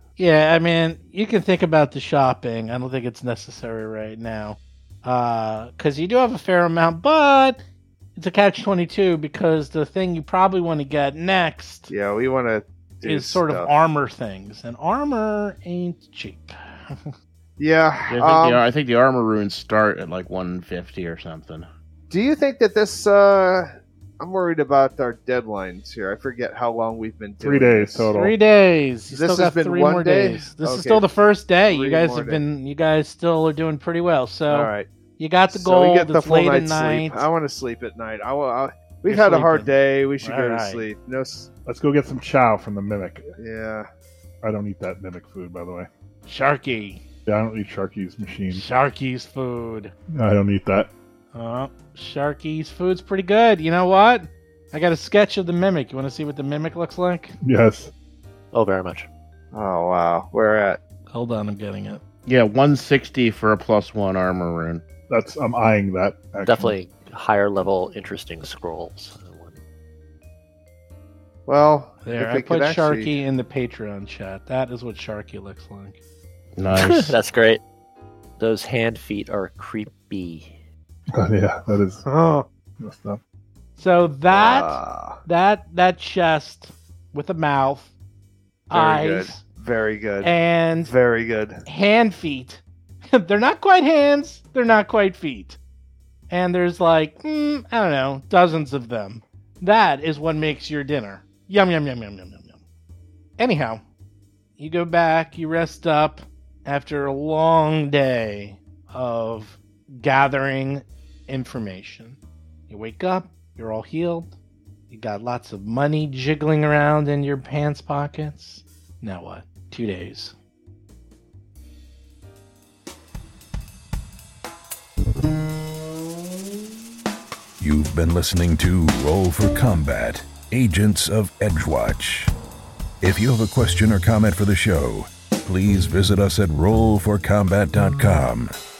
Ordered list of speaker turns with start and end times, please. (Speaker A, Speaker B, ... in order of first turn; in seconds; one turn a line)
Speaker A: 0.2-7.6
Speaker A: 8.1-11.9
Speaker B: 11.9-13.7
Speaker A: 13.0-17.1
Speaker B: 17.6-18.6
Speaker C: 18.1-21.7
Speaker B: 22.1-28.1
Speaker D: 27.4-28.4
Speaker A: 28.1-37.2
Speaker B: 29.1-31.1
Speaker B: 31.6-32.4
Speaker B: 34.5-34.9
Speaker B: 35.5-41.5
Speaker A: 39.1-40.9
Speaker D: 41.6-43.3
Speaker B: 43.4-43.9
Speaker D: 44.4-45.9
Speaker A: 46.3-47.0
Speaker D: 47.2-48.6
Speaker A: 48.5-49.9
Speaker D: 50.1-50.9
Speaker A: 51.3-57.4
Speaker D: 57.4-57.9
Speaker E: 58.5-59.1
Speaker B: 59.5-60.8
Speaker A: 61.1-62.0
Speaker C: 62.2-64.8
Speaker D: 65.1-66.8
Speaker E: 66.4-69.6
Speaker B: 71.5-73.1
Speaker A: 72.0-76.0
Speaker C: 76.5-77.2
Speaker E: 76.7-77.6
Speaker E: 78.4-80.6
Speaker D: 81.2-82.0
Speaker B: 82.0-82.5
Speaker D: 82.8-83.2
Speaker A: 83.8-87.9
Speaker B: 84.3-85.2
Speaker A: 88.7-89.4
Speaker B: 88.7-91.6
Speaker A: 90.2-90.9
Speaker A: 91.7-95.6
Speaker A: 96.3-102.6
Speaker A: 103.4-103.8
Speaker A: 104.6-112.2
Speaker A: 112.7-114.3
Speaker A: 114.9-120.3
Speaker F: 127.6-132.3
Speaker F: 133.0-138.5